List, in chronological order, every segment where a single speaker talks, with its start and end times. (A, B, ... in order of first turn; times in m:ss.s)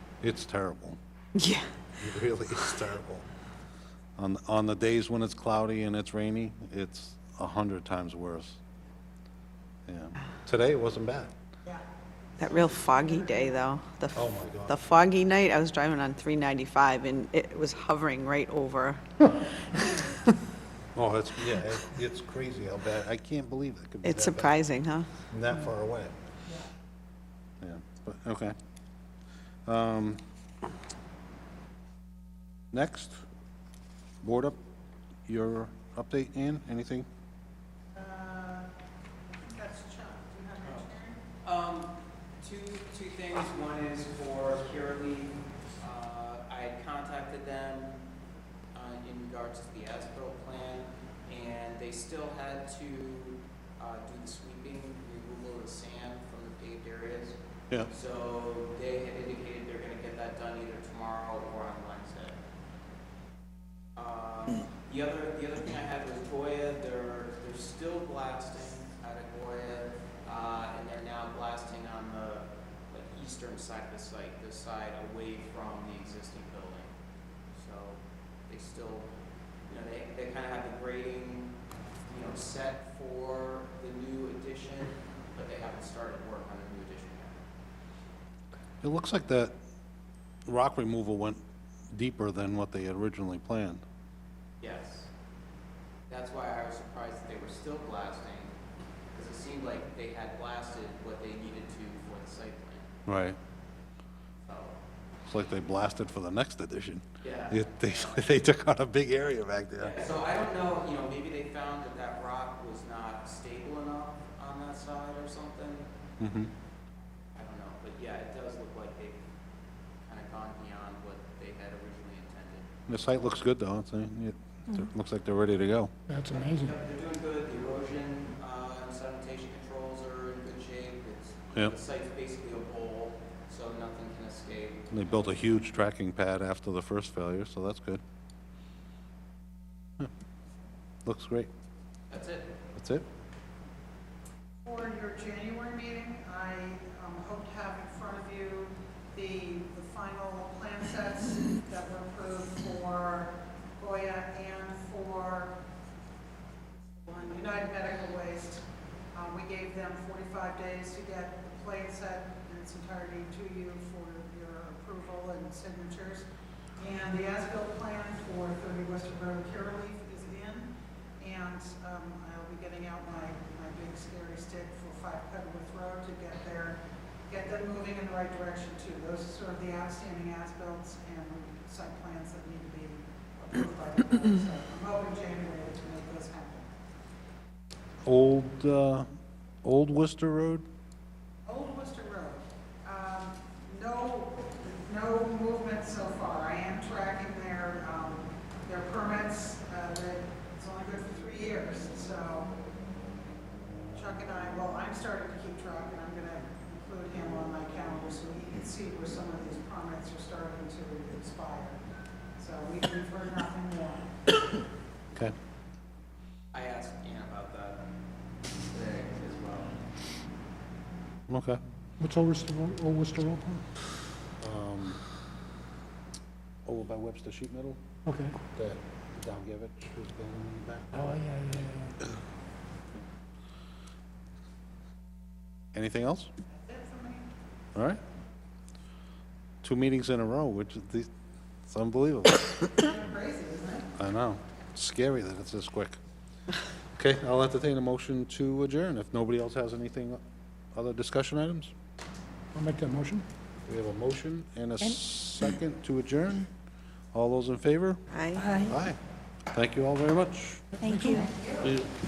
0:00.2-0:01.0 A
0:01.3-0:01.7 B
0:02.0-0:03.2 A
0:04.2-0:08.6 A
0:09.9-0:11.3 A
0:12.4-0:13.6 C
0:12.4-0:20.3 B
0:14.1-0:14.8 A
0:20.9-0:24.6 A
0:24.0-0:25.1 B
0:25.3-0:26.1 A
0:27.6-0:28.5 A
0:29.6-0:30.2 A
0:32.7-0:33.2 A
0:34.2-0:34.6 A
0:35.3-0:37.1 A
0:37.9-0:38.7 C
0:39.3-0:41.2 C
0:40.6-0:40.9 D
0:41.4-0:48.0 D
0:48.7-0:57.4 D
0:57.9-1:02.4 D
1:04.0-1:16.9 D
1:17.5-1:19.1 D
1:19.7-1:21.5 D
1:22.1-1:27.4 D
1:28.8-1:29.5 A
1:30.4-1:31.4 A
1:31.9-1:33.8 A
1:34.6-1:35.1 D
1:36.1-1:38.5 D
1:39.1-1:42.9 D
1:43.0-1:43.4 A
1:44.4-1:44.7 D
1:45.2-1:50.1 A
1:47.2-1:48.4 D
1:49.8-1:55.9 D
1:56.2-1:56.5 A
1:57.3-1:59.2 D
2:00.0-2:02.7 D
2:02.9-2:05.9 A
2:06.1-2:06.7 E
2:06.3-2:15.5 D
2:14.9-2:18.0 A
2:21.0-2:21.5 A
2:22.1-2:22.5 D
2:22.8-2:23.0 A
2:24.6-2:35.5 C
2:36.8-2:46.2 C
2:46.8-2:50.7 C
2:51.2-2:56.8 C
2:57.3-3:06.7 C
3:08.0-3:09.1 A
3:09.6-3:10.6 A
3:11.4-3:22.5 C
3:23.9-3:31.8 C
3:32.4-3:34.1 C
3:36.5-3:37.8 D
3:38.7-3:39.7 D
3:41.3-3:41.6 A
3:42.0-3:43.6 E
3:44.4-3:45.0 A
3:46.6-3:47.8 A
3:48.1-3:48.4 E
3:48.5-3:51.2 A
3:50.9-3:52.0 E
3:55.7-3:56.3 A
3:56.5-3:57.3 C
3:57.7-3:58.0 A
3:59.6-4:01.1 A
4:01.7-4:02.7 A
4:02.8-4:03.9 C
4:04.0-4:06.0 A
4:06.9-4:10.2 A
4:10.7-4:11.7 A
4:12.5-4:13.2 E
4:13.7-4:16.5 A
4:17.1-4:18.0 A
4:18.1-4:18.6 B
4:18.4-4:18.7 E
4:18.6-4:19.0 A
4:19.5-4:20.7 A
4:20.8-4:21.3 E
4:20.9-4:21.2 B
4:21.1-4:21.7 C
4:21.6-4:21.9 A